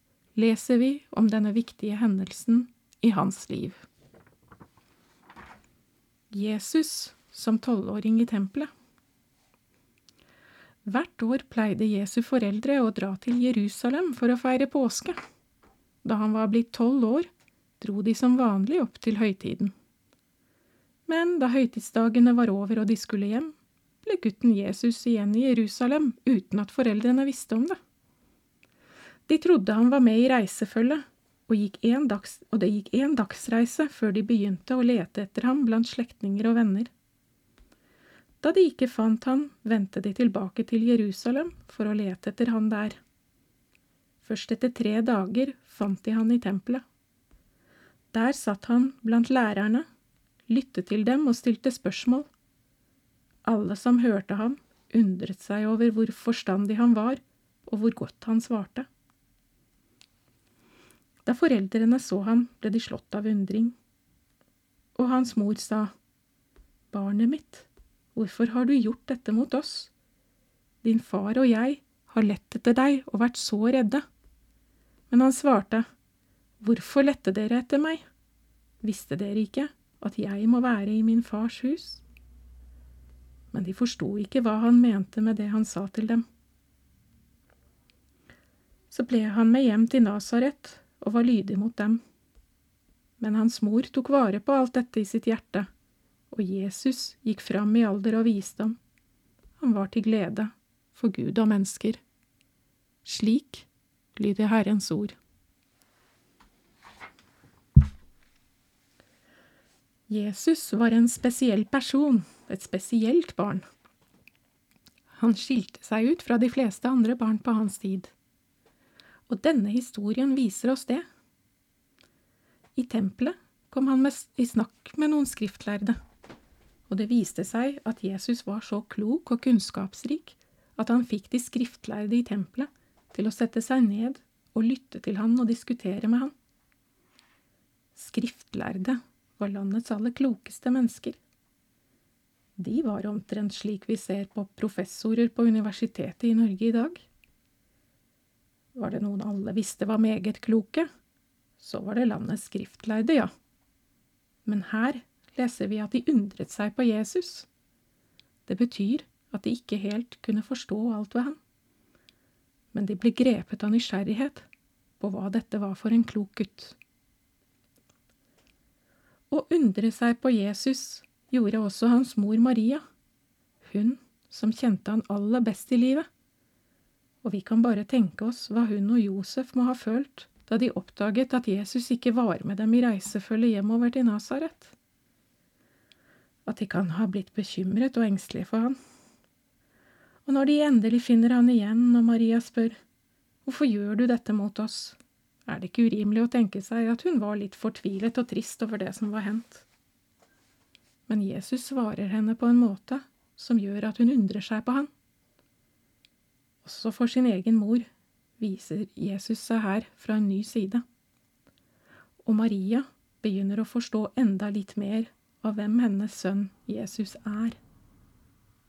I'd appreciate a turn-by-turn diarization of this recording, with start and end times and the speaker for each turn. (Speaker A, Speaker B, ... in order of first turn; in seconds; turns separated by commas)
Speaker A: 0.3-3.8, Speaker A: 6.3-8.7, Speaker A: 10.8-15.2, Speaker A: 16.0-17.3, Speaker A: 17.8-19.7, Speaker A: 21.1-27.8, Speaker A: 29.3-36.9, Speaker A: 38.4-43.0, Speaker A: 44.2-46.8, Speaker A: 48.1-49.9, Speaker A: 50.5-52.3, Speaker A: 53.4-58.9, Speaker A: 61.2-63.7, Speaker A: 65.0-65.9, Speaker A: 66.9-69.9, Speaker A: 70.8-74.0, Speaker A: 75.1-75.8, Speaker A: 76.6-78.0, Speaker A: 78.8-82.0, Speaker A: 83.5-86.2, Speaker A: 88.9-92.0, Speaker A: 93.2-95.7, Speaker A: 96.3-98.8, Speaker A: 99.6-102.0, Speaker A: 103.0-105.2, Speaker A: 110.1-113.6, Speaker A: 115.2-118.1, Speaker A: 119.3-121.0, Speaker A: 122.8-126.0, Speaker A: 126.9-136.3, Speaker A: 137.9-141.2, Speaker A: 142.6-147.1, Speaker A: 148.7-150.9, Speaker A: 151.6-153.3, Speaker A: 154.4-157.5, Speaker A: 158.5-161.4, Speaker A: 162.7-164.4, Speaker A: 165.0-166.8, Speaker A: 169.3-172.8, Speaker A: 173.6-176.1, Speaker A: 177.2-184.7, Speaker A: 186.4-188.8, Speaker A: 190.2-192.8, Speaker A: 193.4-199.6, Speaker A: 201.1-204.9, Speaker A: 206.6-207.9, Speaker A: 208.4-210.8, Speaker A: 212.2-217.6